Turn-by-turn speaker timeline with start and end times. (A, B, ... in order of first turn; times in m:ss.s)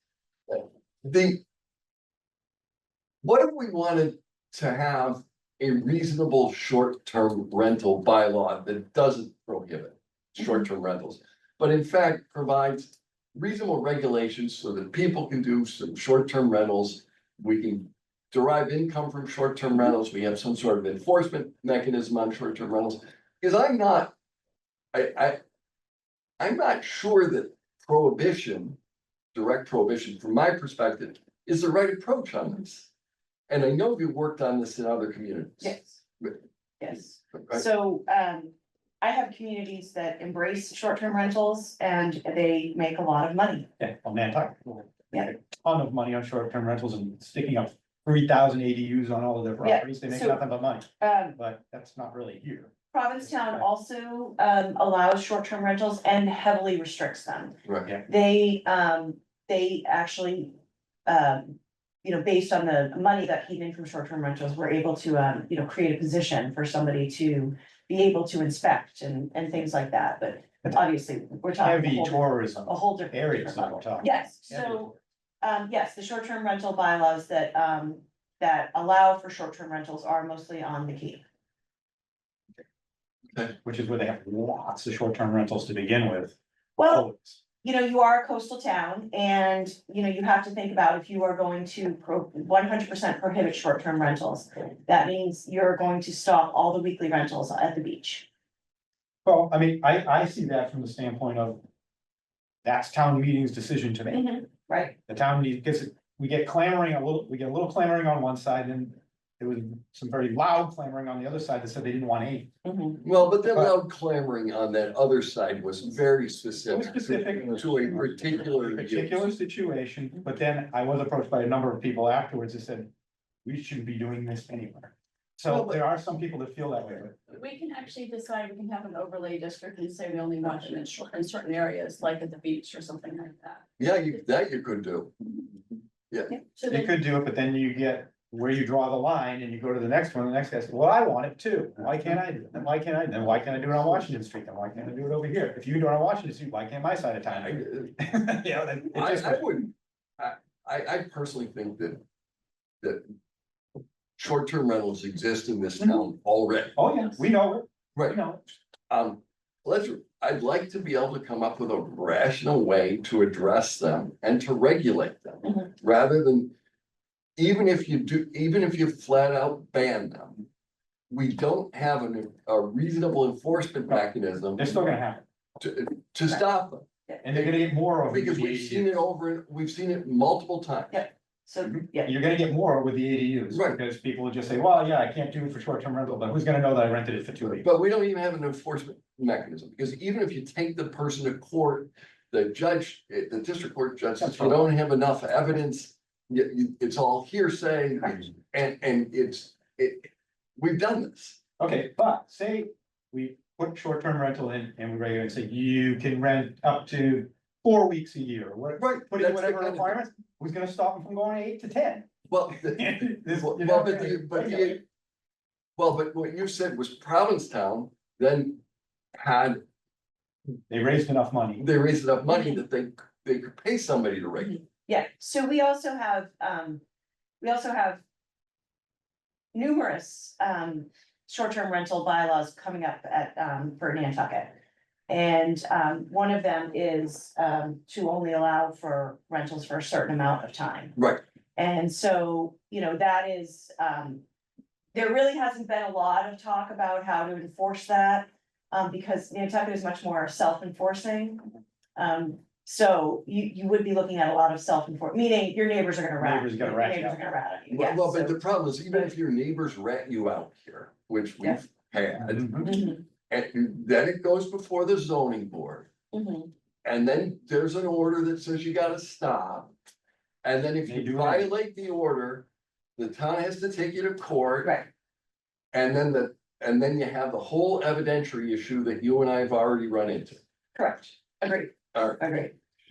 0:00.5-0:01.4 A
0:03.2-0:24.1 A
0:24.9-0:25.4 A
0:26.4-0:28.8 A
0:29.3-0:32.9 A
0:33.5-0:36.4 A
0:35.6-0:36.0 B
0:36.8-0:43.7 B
0:37.3-0:37.6 A
0:43.8-0:52.7 C
0:49.6-0:50.4 B
0:51.0-0:51.4 B
0:52.9-1:21.2 B
0:53.2-0:53.6 C
1:11.6-1:14.9 C
1:23.6-1:26.4 C
1:26.8-1:27.0 B
1:26.9-1:27.4 C
1:27.6-1:38.3 B
1:39.2-1:41.6 C
1:42.6-1:44.3 C
1:44.1-1:45.0 B
1:45.1-1:52.5 C
1:52.6-1:53.0 B
1:53.0-1:59.3 A
1:56.7-2:02.9 C
2:03.4-2:07.2 C
2:05.5-2:05.8 A
2:07.3-2:13.7 D
2:13.8-2:15.1 A
2:16.5-2:16.9 D
2:16.7-2:29.5 C
2:27.3-2:27.9 A
2:28.9-2:32.0 A
2:34.2-2:36.8 A
2:36.8-2:38.4 C
2:38.9-2:46.5 A
2:45.4-2:45.7 B
2:47.4-2:50.5 A
2:51.1-2:54.8 A
2:54.6-2:55.2 C
2:55.6-3:01.0 A
2:57.2-2:59.0 C
3:00.9-3:02.1 B
3:02.0-3:07.7 C
3:03.5-3:03.8 A
3:07.6-3:21.4 A
3:14.2-3:14.6 C
3:21.6-3:34.8 C
3:28.8-3:30.0 A
3:32.3-3:34.8 A
3:35.8-3:38.6 A
3:39.2-3:39.6 A
3:40.7-3:41.6 C
3:41.6-3:44.6 A
3:42.3-3:42.6 B
3:44.9-3:46.8 B
3:47.4-3:48.0 B
3:49.5-3:54.6 B
3:55.1-4:00.9 B
4:01.0-4:01.2 A
4:01.6-4:04.2 B
4:04.9-4:19.1 B
4:16.2-4:17.2 C
4:17.7-4:22.8 A
4:22.2-4:22.7 C
4:22.6-4:23.0 B
4:23.3-4:25.9 A
4:26.1-4:26.5 B
4:26.8-4:29.7 A
4:30.4-4:34.7 A
4:30.9-4:31.5 C
4:35.7-4:40.4 A
4:40.8-4:42.5 B
4:41.9-4:42.2 A